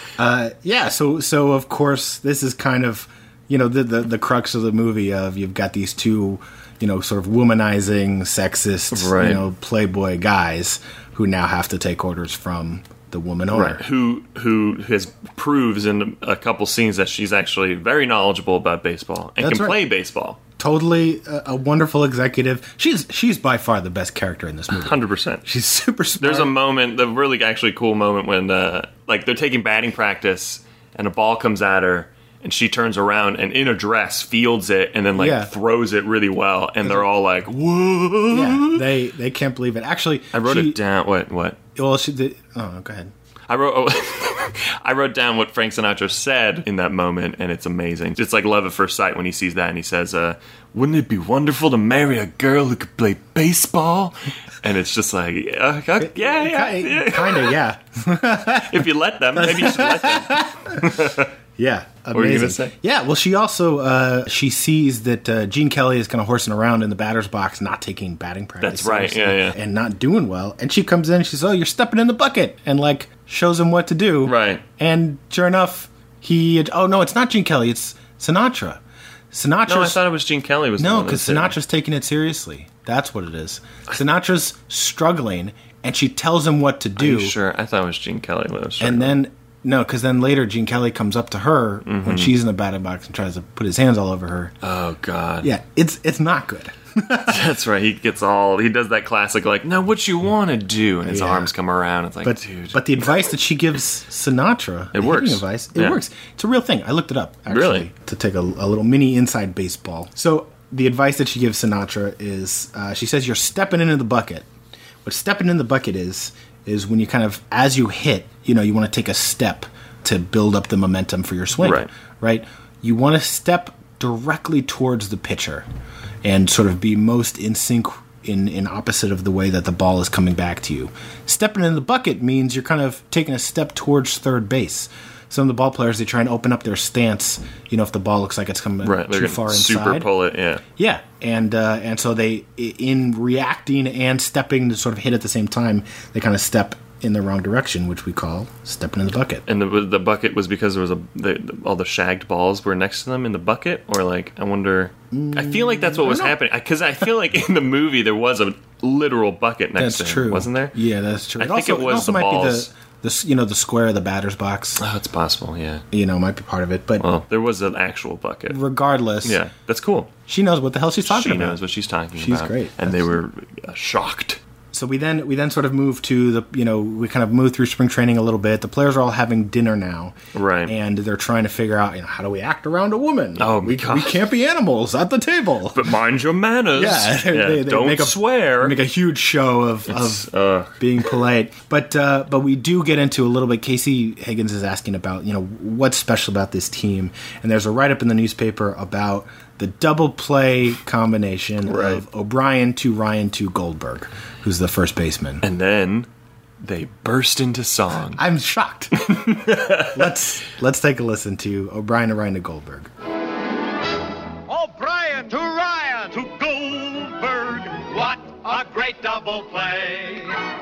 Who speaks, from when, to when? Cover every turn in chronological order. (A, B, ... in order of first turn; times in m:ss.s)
0:00.2-0:13.8 A
0:08.9-0:09.4 B
0:13.5-0:20.4 B
0:19.4-0:19.8 A
0:20.6-0:26.5 A
0:24.7-0:25.4 B
0:26.2-0:38.8 B
0:35.2-0:35.5 A
0:38.3-0:40.8 A
0:40.3-0:41.6 B
0:41.8-0:43.1 A
0:43.5-0:57.6 B
0:56.0-1:18.8 A
0:58.6-1:01.3 B
1:02.1-1:02.7 B
1:08.6-1:09.6 B
1:14.2-1:14.6 B
1:19.3-1:20.0 A
1:19.7-1:21.6 B
1:20.8-1:27.3 A
1:27.0-1:29.2 B
1:28.8-1:34.5 A
1:31.8-1:32.3 B
1:34.6-1:35.5 B
1:35.4-1:37.4 A
1:37.3-1:43.1 B
1:41.0-1:41.5 A
1:42.2-1:54.5 A
1:44.9-1:46.0 B
1:47.5-1:47.9 B
1:55.0-2:05.7 A
2:01.6-2:01.9 B
2:06.2-2:20.1 A
2:18.8-2:20.6 B
2:20.8-2:29.4 A
2:29.4-2:40.7 B
2:35.1-2:36.4 A
2:39.8-2:44.8 A
2:41.4-2:42.7 B
2:44.8-2:45.8 B
2:45.9-2:47.1 A
2:47.0-2:48.6 B
2:48.5-2:49.4 A
2:49.2-2:50.1 B
2:50.3-2:51.6 A
2:51.0-2:54.4 B
2:52.1-2:53.2 A
2:54.7-3:05.9 A
3:00.3-3:00.7 B
3:03.4-3:04.2 B
3:05.7-3:08.8 B
3:06.7-3:25.4 A
3:09.9-3:10.8 B
3:21.6-3:22.0 B
3:25.4-3:26.1 B
3:26.6-3:28.2 B
3:28.1-3:32.9 A
3:29.1-3:30.2 B
3:34.5-3:40.4 C